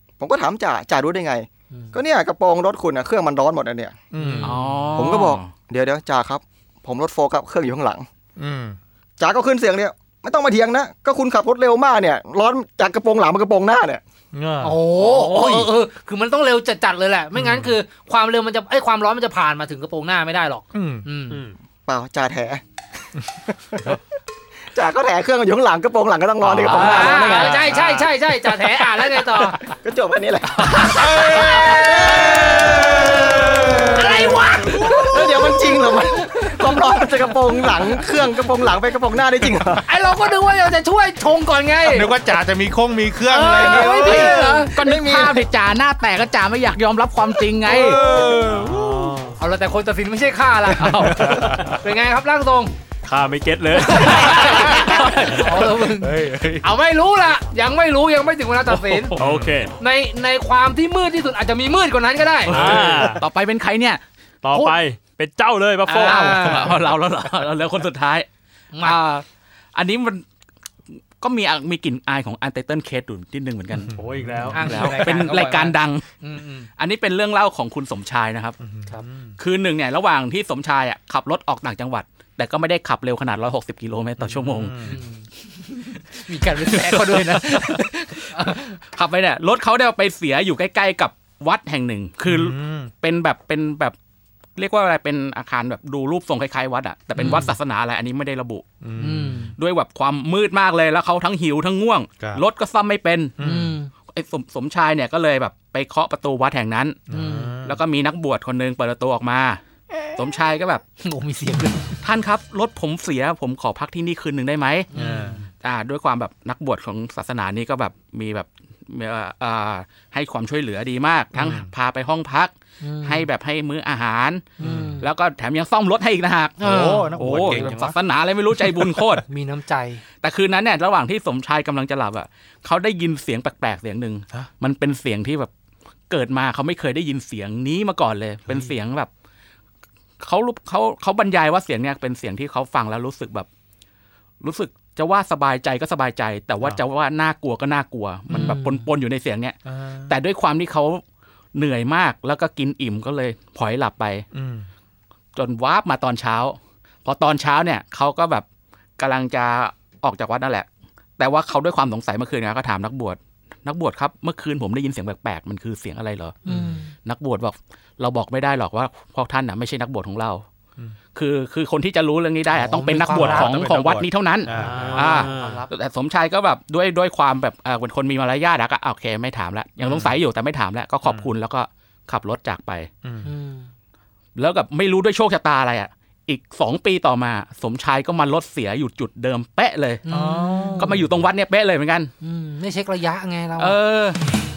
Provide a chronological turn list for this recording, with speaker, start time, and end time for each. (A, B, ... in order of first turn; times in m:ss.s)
0:00.2-0:03.9 A
0:04.1-0:04.7 B
0:04.2-0:04.5 C
0:04.4-0:05.5 D
0:04.9-0:08.1 A
0:08.4-0:08.8 B
0:09.2-0:14.0 A
0:14.3-0:14.8 B
0:14.6-0:21.4 C
0:15.0-0:15.7 D
0:17.4-0:17.8 B
0:20.7-0:21.1 B
0:21.3-0:21.6 E
0:21.9-0:22.6 A
0:23.5-0:23.9 A
0:24.7-0:27.6 A
0:26.4-0:27.7 D
0:26.7-0:29.6 C
0:27.3-0:28.1 B
0:29.7-0:39.8 A
0:30.6-0:37.0 C
0:30.9-0:31.8 B
0:39.8-0:42.1 C
0:41.8-0:44.3 B
0:43.3-0:44.9 C
0:43.7-0:45.4 A
0:43.9-0:48.0 D
0:47.6-0:49.2 B
0:48.5-0:49.4 E
0:49.4-0:52.7 C
0:50.8-0:51.7 B
0:50.8-0:51.1 D
0:53.1-0:54.7 E
0:53.9-0:59.2 C
0:54.6-0:56.7 B
0:54.7-0:55.5 D
0:58.7-0:59.3 D
0:59.2-0:59.6 B
0:59.2-0:59.7 E
0:59.8-1:02.7 C
1:02.4-1:04.0 D
1:02.5-1:03.2 B
1:02.5-1:03.3 E
1:04.4-1:06.2 E
1:04.5-1:04.8 C
1:05.9-1:08.3 D
1:06.0-1:06.8 C
1:08.7-1:09.2 C
1:08.8-1:09.2 D
1:09.8-1:10.2 D
1:11.2-1:14.0 D
1:13.9-1:14.9 B
1:14.0-1:14.8 E
1:14.5-1:16.7 C
1:14.6-1:16.0 D
1:16.8-1:18.6 D
1:18.6-1:19.4 B
1:19.4-1:24.8 D
1:24.2-1:25.0 B
1:24.8-1:28.8 C
1:25.9-1:34.0 D
1:32.2-1:32.9 B
1:34.6-1:38.7 D
1:37.2-1:37.5 C
1:38.8-1:39.5 B
1:39.0-1:39.6 C
1:39.6-1:43.4 D
1:42.2-1:42.4 B
1:43.4-1:43.8 B
1:43.4-1:43.9 C
1:44.1-1:47.0 D
1:47.1-1:47.8 B
1:47.1-1:47.6 C
1:47.6-1:49.6 D
1:50.2-1:50.8 D
1:51.0-1:51.9 C
1:52.0-1:54.9 D
1:54.9-1:55.5 C
1:54.9-1:55.5 B
1:55.6-2:09.2 D
2:01.4-2:01.7 B
2:02.8-2:03.3 C
2:04.6-2:05.1 C
2:04.6-2:05.1 B
2:06.6-2:07.2 C
2:06.6-2:08.0 B
2:09.2-2:10.0 C
2:10.2-2:15.5 D
2:16.1-2:19.1 D
2:18.4-2:18.8 B
2:20.2-2:23.5 D
2:24.4-2:31.0 D
2:28.3-2:28.6 B
2:28.3-2:28.9 C
2:29.7-2:30.2 B
2:31.6-2:34.3 D
2:34.3-2:34.7 B
2:35.4-2:38.5 D
2:39.0-2:40.7 D
2:41.2-2:46.5 D
2:46.4-2:46.9 C
2:46.5-2:46.8 B
2:47.0-2:50.4 D
2:51.2-3:02.9 D
2:52.5-2:53.5 C
2:53.1-2:55.7 B
2:54.5-2:55.6 E
2:54.6-2:55.6 C
2:59.8-3:00.2 B
3:01.0-3:01.3 B
3:03.0-3:03.3 B
3:03.2-3:03.7 C
3:04.4-3:10.1 D
3:10.1-3:10.9 C
3:10.1-3:11.3 B
3:10.8-3:12.1 D
3:12.2-3:13.8 C
3:13.6-3:14.2 D